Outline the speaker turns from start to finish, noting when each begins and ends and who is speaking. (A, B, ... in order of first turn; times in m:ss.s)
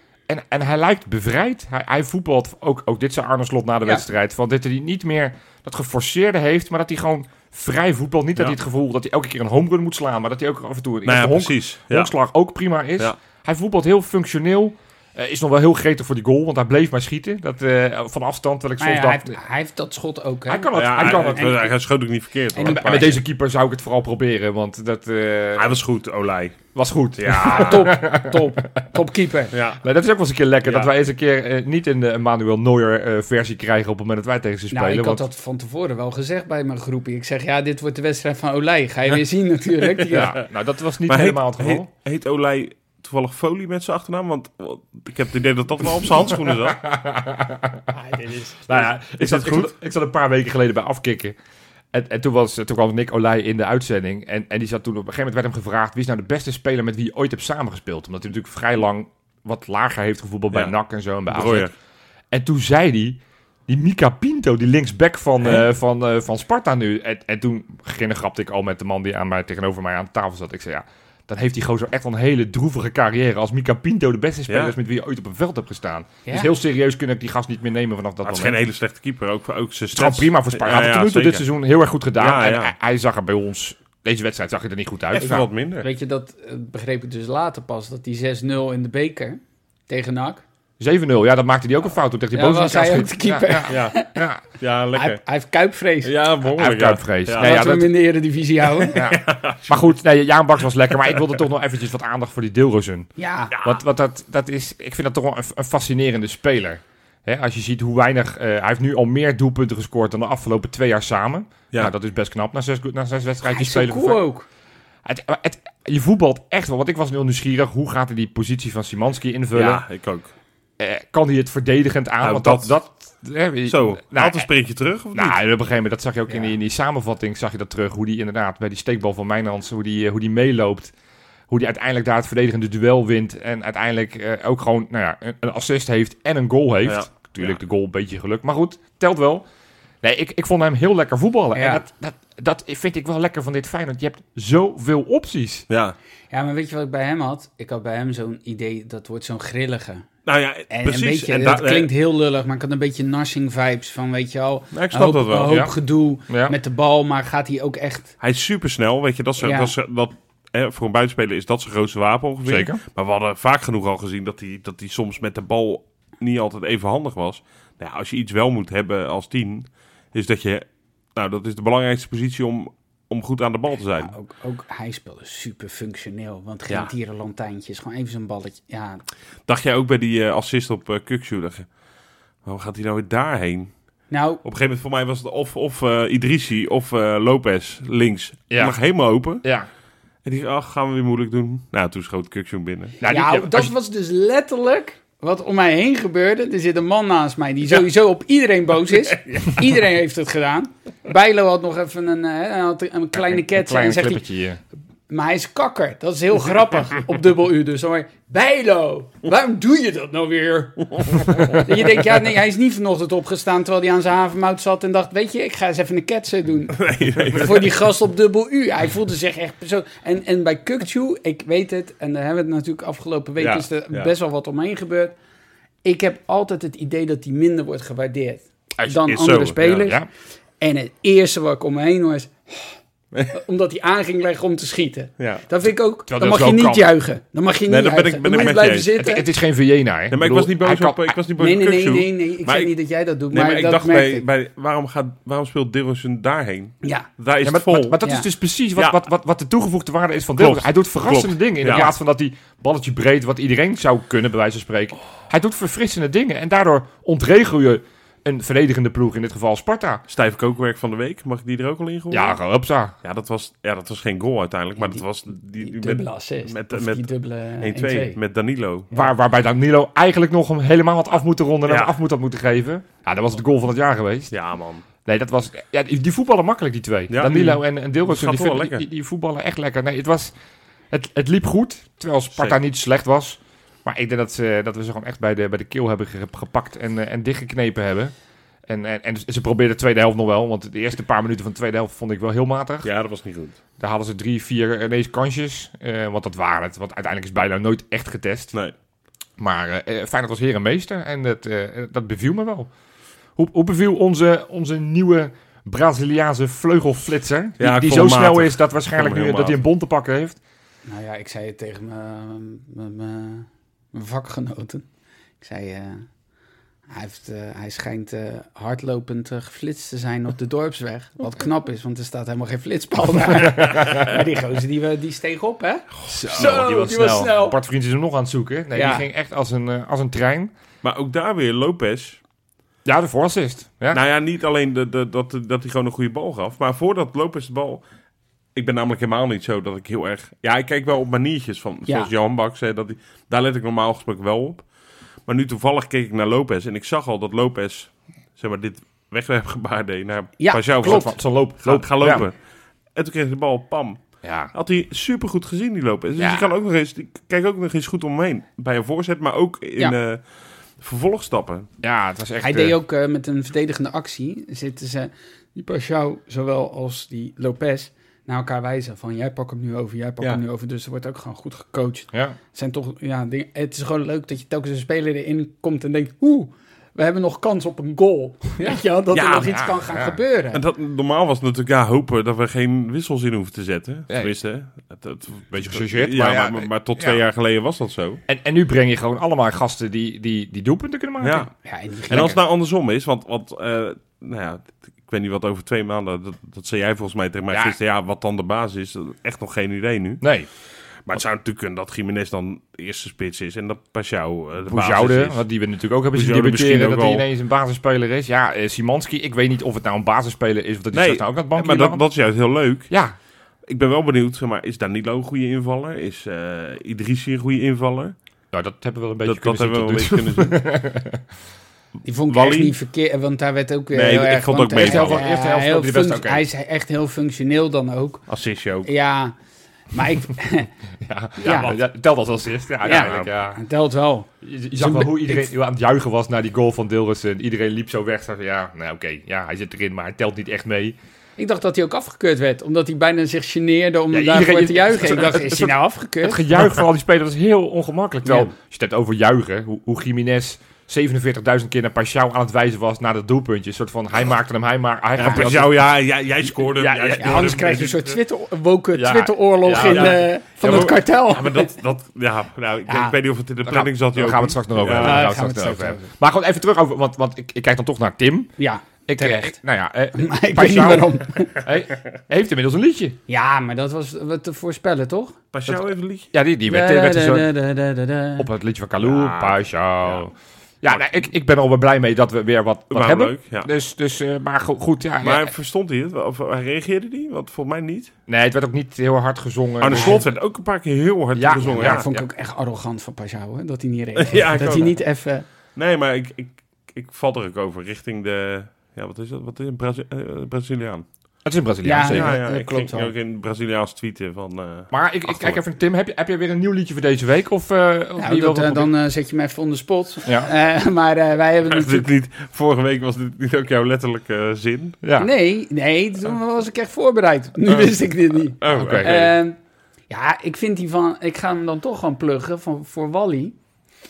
0:00.3-0:19.4 A
0:11.0-0:12.1 B
0:18.8-0:21.7 C
0:20.5-0:21.7 A
0:20.7-0:23.2 B
0:22.6-0:23.1 C
0:22.6-0:25.8 A
0:25.6-0:27.9 B
0:26.8-0:28.6 A
0:27.4-0:29.5 C
0:29.5-0:29.8 B
0:29.8-0:35.2 A
0:34.7-0:40.4 C
0:40.1-0:41.9 A
0:41.1-0:46.8 B
0:46.5-0:47.9 A
0:47.9-0:48.6 C
0:48.7-0:51.4 A
0:49.2-0:49.7 B
0:51.9-1:01.7 A
1:01.3-1:01.7 B
1:02.3-1:18.6 A
1:14.5-1:14.8 B
1:16.3-1:16.5 C
1:18.2-1:21.4 B
1:19.9-1:25.5 A
1:22.2-1:22.7 B
1:25.1-1:25.9 B
1:25.8-1:30.4 C
1:30.8-1:34.4 A
1:32.3-1:34.2 C
1:33.7-1:34.0 B
1:34.6-1:35.2 B
1:35.0-1:36.1 C
1:36.0-1:37.5 B
1:36.5-1:37.9 A
1:37.4-1:39.0 C
1:38.8-1:39.9 B
1:39.0-1:54.2 A
1:43.2-1:43.6 C
1:53.4-1:54.5 C
1:55.0-1:59.8 A
1:59.5-2:00.3 B
2:00.8-2:04.5 A
2:02.2-2:02.8 B
2:03.7-2:05.4 B
2:05.1-2:10.9 A
2:11.5-2:19.4 A
2:16.9-2:17.6 B
2:20.0-2:25.7 A
2:21.6-2:21.8 C
2:25.7-2:26.0 B
2:26.3-2:30.1 C
2:30.2-2:31.9 B
2:30.7-2:38.1 C
2:34.7-2:35.7 B
2:35.5-2:35.7 A
2:36.3-2:36.6 A
2:38.2-2:54.1 B
2:39.4-2:39.7 C
2:42.5-2:42.8 A
2:54.0-2:59.0 C
2:59.5-3:01.7 B
3:02.4-3:03.7 B
3:04.1-3:04.4 C
3:04.4-3:09.4 B
3:08.5-3:08.8 A
3:09.4-3:09.7 A
3:10.2-3:13.0 B
3:13.0-3:13.7 A
3:13.0-3:24.2 C
3:23.1-3:24.6 A
3:25.1-3:45.2 C
3:31.1-3:31.4 B
3:36.7-3:37.7 B
3:43.4-3:44.1 B
3:45.8-3:50.0 C
3:49.0-3:49.9 B
3:49.8-3:50.1 A
3:50.6-3:52.8 C
3:53.3-3:59.3 C
3:55.2-3:55.4 B
3:56.1-3:56.9 A
3:57.7-3:58.9 B
3:59.0-4:01.2 A
4:00.1-4:02.7 B
4:01.4-4:04.2 C
4:03.3-4:08.0 B
4:07.4-4:20.0 A
4:10.4-4:11.9 B
4:20.1-4:22.4 B
4:22.1-4:23.0 A
4:23.0-4:27.1 B
4:24.8-4:25.0 C
4:25.6-4:28.2 C
4:27.6-4:29.0 B
4:28.9-4:34.3 A
4:31.7-4:31.9 B
4:34.3-4:34.8 B
4:35.0-4:40.3 A
4:37.1-4:38.8 B
4:40.9-4:48.1 A
4:48.7-4:52.9 A
4:52.8-4:53.6 B
4:53.8-4:58.5 A
4:59.4-5:02.7 A
5:03.4-5:10.4 A
5:07.6-5:09.6 B
5:10.9-5:14.9 C
5:15.4-5:16.1 C
5:16.9-5:27.6 C
5:23.5-5:24.0 A
5:26.1-5:26.5 B
5:26.1-5:30.5 A
5:28.7-5:29.1 C
5:30.8-5:32.2 B
5:32.8-5:34.0 A
5:33.9-5:37.8 B
5:38.6-5:44.6 B
5:45.3-5:52.3 B
5:50.4-5:51.1 C
5:50.8-5:52.3 A
5:53.0-6:00.2 B
5:54.2-5:54.5 A
5:56.2-5:56.5 A
6:00.8-6:01.7 B
6:01.8-6:02.8 A
6:02.4-6:20.6 C
6:12.1-6:12.4 A
6:19.1-6:19.6 B
6:19.4-6:20.2 A
6:20.5-6:28.2 B
6:25.5-6:27.2 A
6:28.3-6:31.5 A
6:31.2-6:31.5 B
6:31.6-6:32.4 C
6:32.1-6:40.3 B
6:37.5-6:37.8 A
6:40.2-6:40.5 A
6:41.0-6:45.4 B
6:44.7-6:52.0 A
6:46.1-6:47.2 B
6:50.9-6:52.9 B
6:53.7-6:58.1 B
6:58.5-7:01.2 A
6:59.2-7:00.6 B
7:02.0-7:08.2 C
7:02.3-7:02.7 B
7:03.9-7:05.2 B
7:04.8-7:06.4 A
7:08.3-7:08.9 B
7:08.8-7:09.4 C
7:09.9-7:10.7 C
7:11.0-7:13.6 A
7:11.4-7:11.8 C
7:12.8-7:15.5 C
7:12.9-7:13.3 B
7:14.4-7:21.0 A
7:21.4-7:26.5 C
7:24.1-7:35.8 A
7:28.2-7:28.5 C
7:35.2-7:38.2 B
7:36.7-7:37.6 A
7:37.2-7:41.7 C
7:38.9-7:40.9 A
7:39.8-7:45.3 B
7:42.9-7:43.2 C
7:43.7-7:48.5 A
7:45.0-7:46.1 C
7:48.6-7:49.6 C
7:49.1-7:53.2 A
7:50.2-7:51.6 C
7:53.3-7:55.4 C
7:55.5-7:56.3 B
7:56.3-7:57.5 A
7:56.7-7:58.5 C
7:58.4-8:05.5 A
7:59.0-8:00.2 B
8:02.9-8:03.7 B
8:05.2-8:08.1 B
8:08.3-8:10.3 A
8:09.8-8:12.0 B
8:09.9-8:10.2 C
8:11.4-8:12.3 A
8:11.6-8:15.5 C
8:14.2-8:15.0 B
8:15.8-8:21.1 B
8:21.4-8:22.4 A
8:21.8-8:23.1 C
8:22.0-8:25.6 B
8:24.9-8:28.9 A
8:28.2-8:32.1 C
8:31.7-8:35.0 B
8:35.0-8:35.3 A
8:35.2-8:39.6 C
8:38.6-8:39.3 B
8:38.7-8:39.2 A
8:40.1-8:43.6 C